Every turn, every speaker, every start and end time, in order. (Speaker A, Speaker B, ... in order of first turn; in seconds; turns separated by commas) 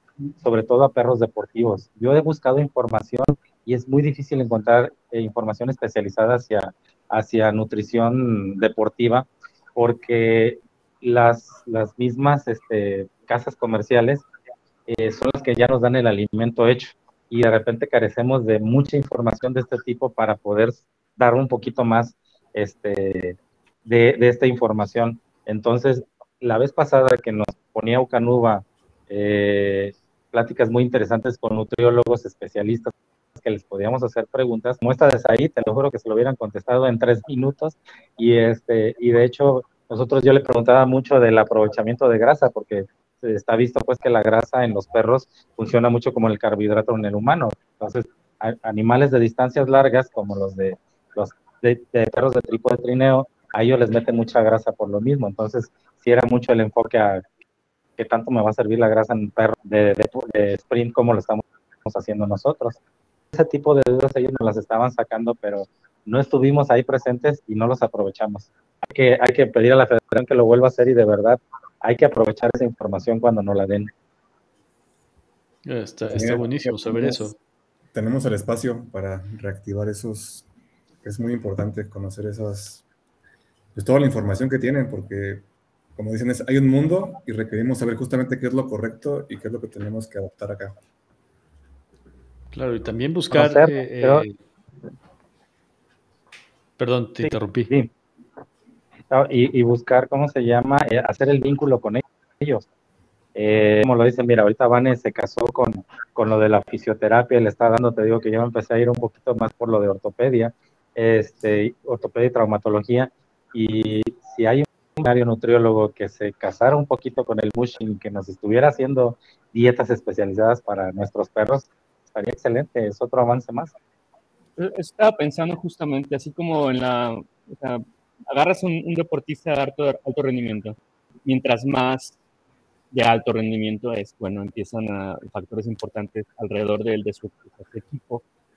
Speaker A: 0.4-14.2, Speaker A: 14.9-57.2, Speaker A: 58.0-62.8, Speaker A: 63.3-73.9, Speaker B: 75.6-77.3, Speaker C: 76.0-77.3, Speaker C: 77.9-80.5, Speaker C: 81.0-82.8, Speaker C: 83.7-90.8, Speaker B: 92.5-94.3, Speaker A: 93.3-94.2, Speaker B: 96.8-97.7, Speaker A: 97.2-97.9, Speaker A: 99.1-102.6, Speaker A: 103.3-123.7, Speaker D: 124.6-132.2, Speaker D: 132.9-138.2